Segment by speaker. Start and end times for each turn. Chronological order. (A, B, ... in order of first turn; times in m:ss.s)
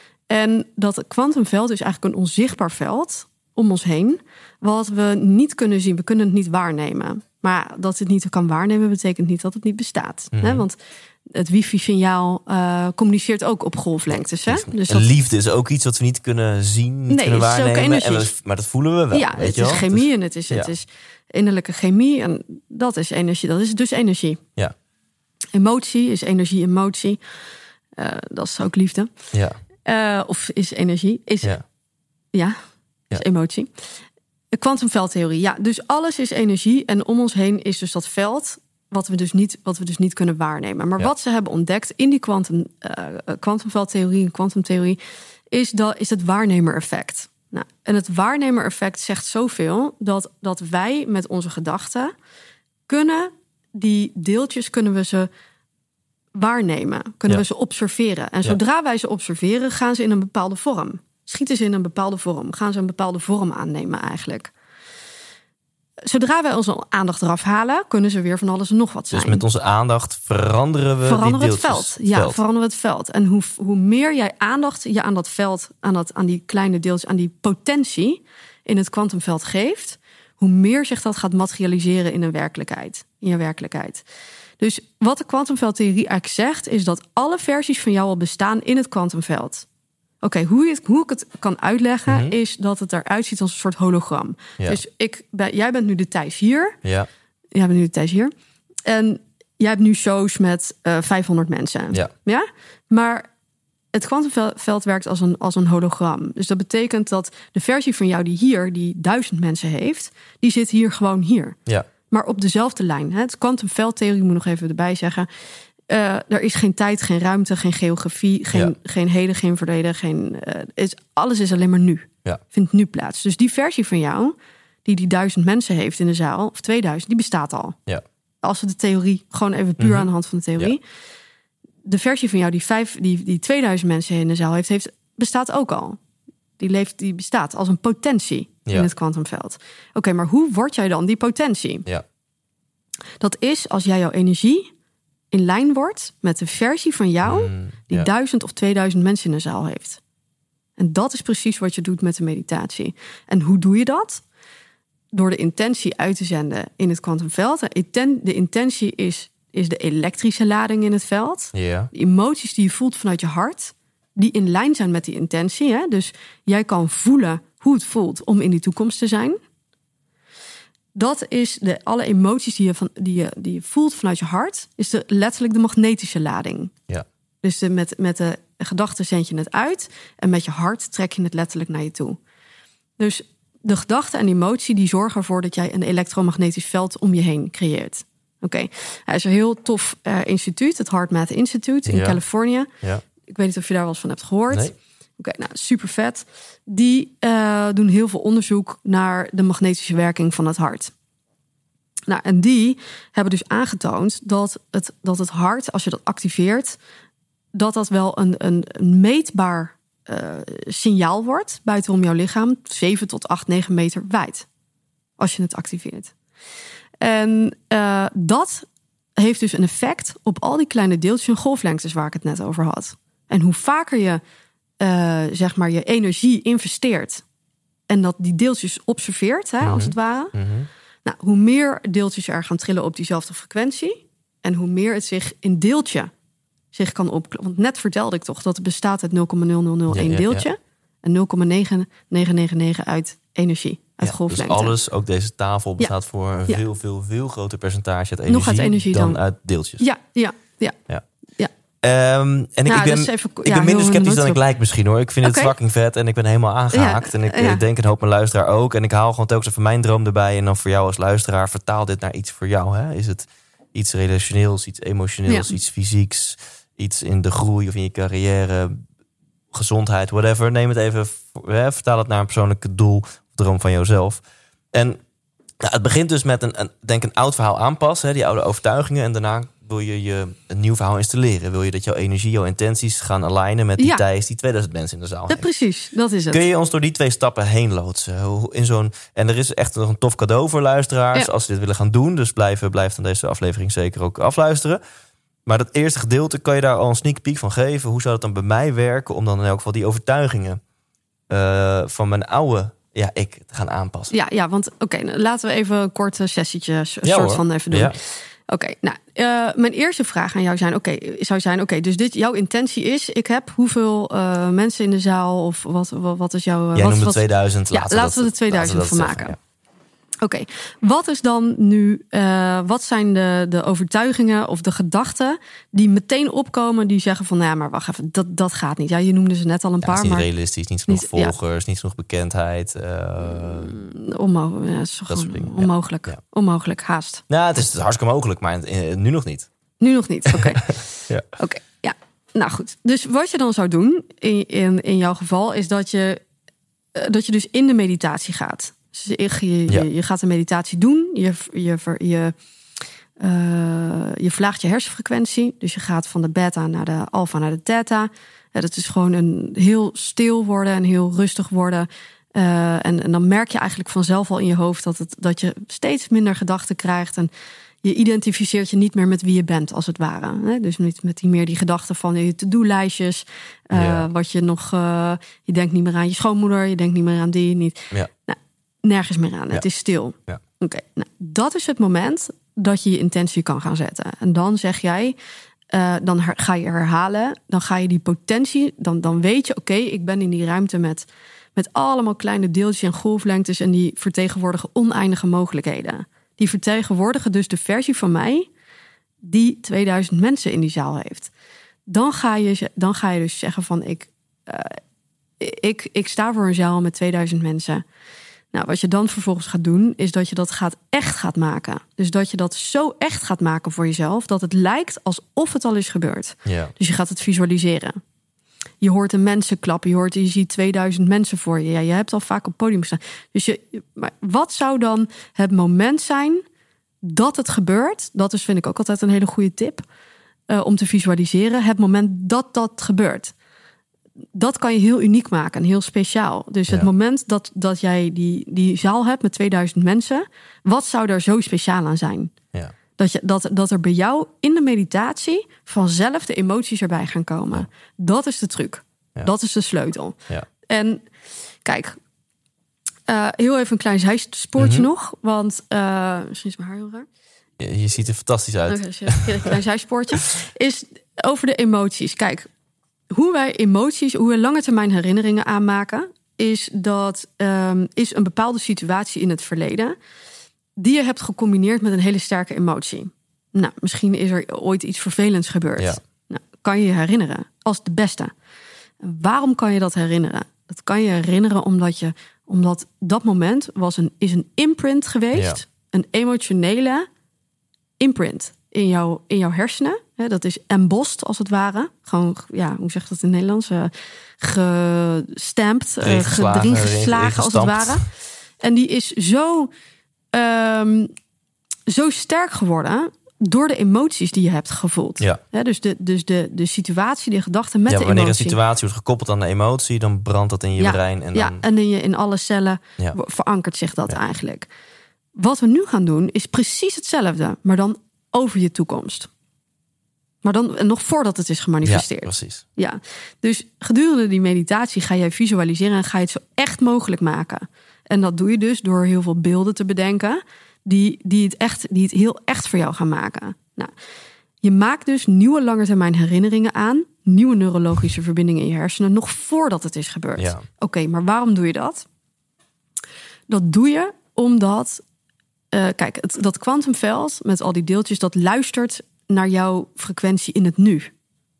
0:00.3-0:15.1 A
0:10.3-0:10.6 B
0:14.1-0:20.7 B
0:17.1-0:18.3 A
0:19.1-0:24.4 A
0:25.5-0:27.2 A
0:28.0-0:29.1 A
0:29.8-0:31.6 A
0:32.3-0:32.6 A
0:33.1-0:33.7 A
0:34.5-0:45.0 A
0:45.5-0:52.1 A
0:52.9-0:55.3 A
0:56.3-1:04.5 A
1:06.0-1:09.4 A
1:09.1-1:12.4 B
1:11.0-1:24.0 A
1:24.6-1:29.6 A
1:30.2-1:36.8 A
1:32.1-1:32.3 B
1:37.5-1:38.3 A
1:38.8-1:43.3 A
1:43.9-1:51.6 A
1:52.1-1:55.3 A
1:55.9-2:07.8 A
2:08.4-2:10.8 A
2:09.8-2:10.7 B
2:11.8-2:16.0 A
2:16.6-2:21.8 A
2:23.2-2:24.7 A
2:25.3-2:30.0 A
2:27.2-2:28.1 B
2:30.8-2:34.2 A
2:35.1-2:49.4 A
2:41.5-2:41.9 B
2:50.9-2:56.7 A
2:57.4-3:02.2 A
3:03.0-3:12.7 A
3:11.8-3:12.2 B
3:13.3-3:20.9 A
3:22.1-3:26.8 A
3:27.5-3:34.4 A
3:35.2-3:36.1 A
3:37.0-3:44.2 A
3:44.8-3:47.2 A
3:47.9-3:50.3 A
3:49.6-3:50.7 B
3:51.0-3:56.1 A
3:56.7-4:04.7 A
3:59.9-4:00.5 B
4:04.0-4:09.8 B
4:08.3-4:09.2 A
4:09.8-4:10.8 A
4:11.8-4:28.8 B
4:12.6-4:14.4 A
4:15.2-4:15.5 A
4:16.7-4:17.6 A
4:25.3-4:25.5 A
4:29.5-4:34.2 B
4:34.7-4:35.0 B
4:35.6-4:45.5 B
4:45.3-4:46.4 A
4:46.3-4:54.8 B
4:55.4-5:00.6 B
5:01.3-5:04.1 B
5:04.1-5:19.4 A
5:07.0-5:07.9 B
5:16.7-5:19.4 B
5:20.2-5:30.3 A
5:29.8-5:33.8 B
5:30.9-5:31.3 A
5:33.4-5:37.2 A
5:35.1-5:36.2 B
5:37.3-5:39.5 B
5:39.8-5:46.2 A
5:46.9-5:52.3 A
5:53.2-6:07.3 A
6:07.8-6:25.2 A
6:13.7-6:14.0 B
6:25.7-6:38.5 A
6:39.2-6:41.3 A
6:41.9-6:44.8 A
6:45.4-6:47.8 A
6:48.5-6:58.0 A
6:56.4-6:56.7 B
6:58.8-7:06.4 A
7:07.0-7:09.8 A
7:10.5-7:13.3 A
7:14.3-7:22.3 A
7:23.0-7:31.0 A
7:31.6-7:32.0 A
7:33.1-7:37.0 A
7:34.6-7:34.9 B
7:37.6-7:39.5 B
7:38.7-7:42.5 A
7:43.1-7:50.0 A
7:50.8-7:58.3 A
7:59.0-8:07.1 A
8:05.3-8:05.6 B
8:08.0-8:19.7 A
8:16.0-8:18.0 B
8:20.3-8:21.1 A
8:21.9-8:28.6 A
8:27.9-8:31.6 B
8:30.8-8:34.7 A
8:35.4-8:39.3 A
8:40.4-8:53.9 A
8:41.8-8:42.6 B
8:54.6-9:02.0 A
9:00.4-9:00.6 B
9:03.5-9:05.0 A
9:05.7-9:11.1 A